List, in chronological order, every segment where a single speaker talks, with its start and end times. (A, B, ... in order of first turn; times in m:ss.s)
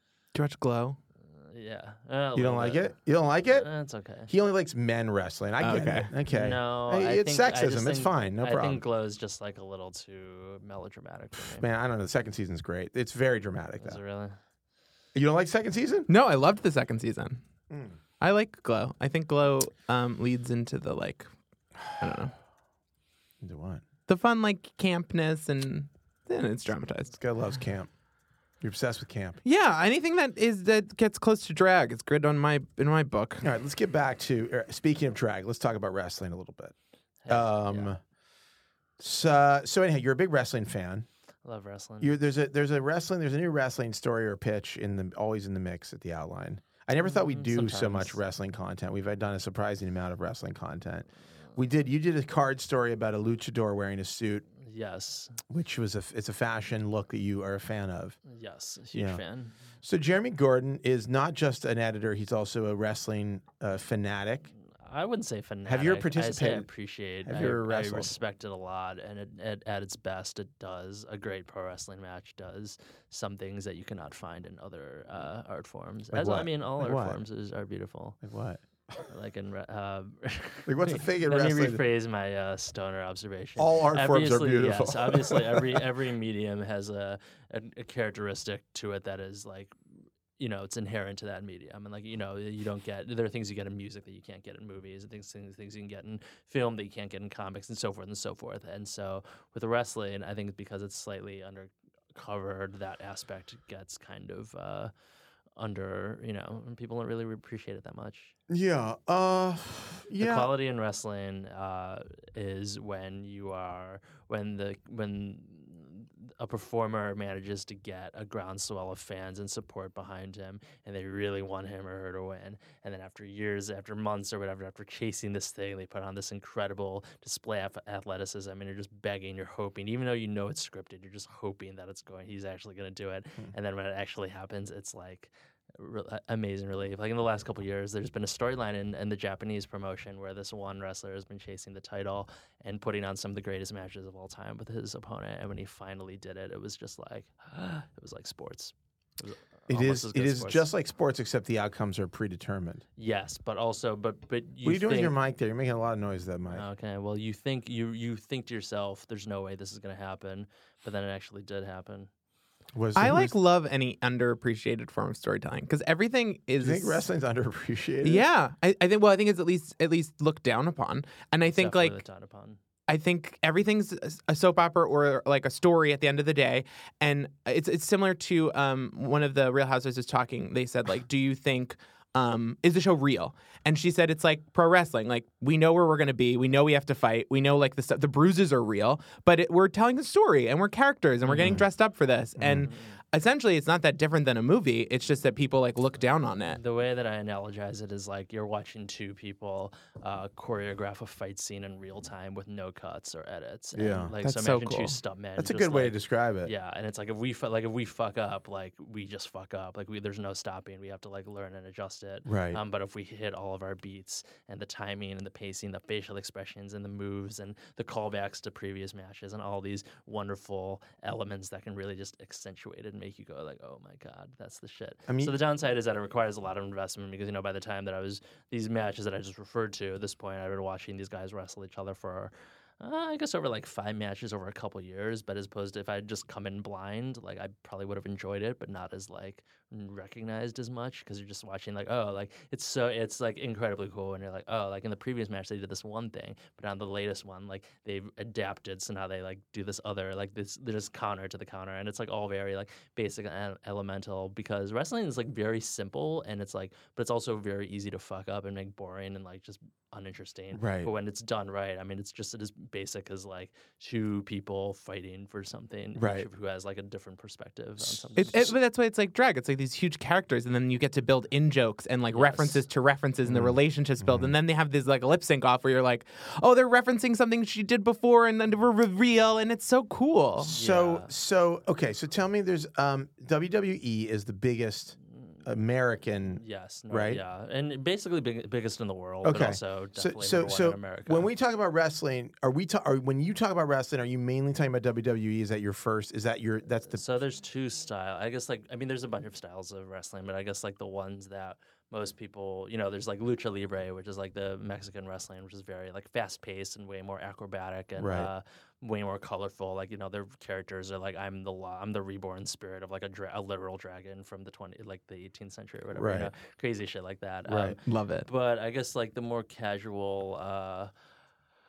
0:00.3-0:01.0 A
0:01.3-0:03.0 B
0:02.4-0:03.7 C
0:03.5-0:04.3 B
0:04.3-0:08.8 C
0:05.6-0:06.1 A
0:06.3-0:11.7 B
0:11.4-0:14.0 C
0:13.8-0:14.4 B
0:15.2-0:16.1 C
0:16.1-0:17.4 A
0:17.7-0:18.0 C
0:18.2-0:21.3 A
0:21.9-0:22.3 A
0:23.4-0:23.8 C
0:24.1-0:27.1 A
0:27.1-0:27.9 C
0:28.6-0:29.4 C
0:29.4-0:33.5 A
0:33.4-0:36.7 C
0:37.2-0:38.0 B
0:37.3-0:38.0 C
0:39.0-0:41.1 C
0:41.4-0:42.2 B
0:42.0-0:54.4 C
0:47.0-0:48.2 B
0:54.6-0:55.4 B
0:55.5-0:58.2 C
0:58.3-0:59.6 B
0:58.9-0:59.2 C
0:59.8-1:04.5 C
1:04.8-1:18.2 B
1:05.7-1:06.7 C
1:07.2-1:08.2 C
1:16.1-1:17.2 C
1:18.2-1:18.6 C
1:19.1-1:29.7 B
1:20.7-1:21.8 C
1:23.6-1:25.8 C
1:30.4-1:44.9 B
1:45.6-1:48.3 B
1:48.5-1:50.5 C
1:50.2-2:30.7 B
2:29.7-2:32.8 C
2:33.0-2:35.2 B
2:34.6-2:36.6 C
2:36.5-2:42.1 B
2:42.7-2:43.4 C
2:43.0-2:47.1 A
2:46.6-2:48.3 C
2:48.0-2:52.0 A
2:51.6-2:52.6 B
2:52.9-3:16.6 A
3:12.4-3:12.7 C
3:12.6-3:13.0 B
3:16.5-4:28.5 B
3:23.8-3:24.2 C
3:24.2-3:25.0 A
3:25.4-3:26.5 C
3:32.3-3:32.6 C
3:45.1-3:45.3 C
4:20.5-4:20.9 C
4:26.0-4:26.3 C
4:28.2-4:40.5 A
4:32.1-4:32.6 B
4:33.3-4:34.3 C
4:40.4-4:47.2 C
4:40.5-4:41.1 B
4:46.4-4:51.3 B
4:49.2-4:57.0 C
4:56.9-5:20.9 B
5:08.0-5:08.3 C
5:15.9-5:16.3 C
5:17.5-5:17.8 C
5:17.8-5:18.3 A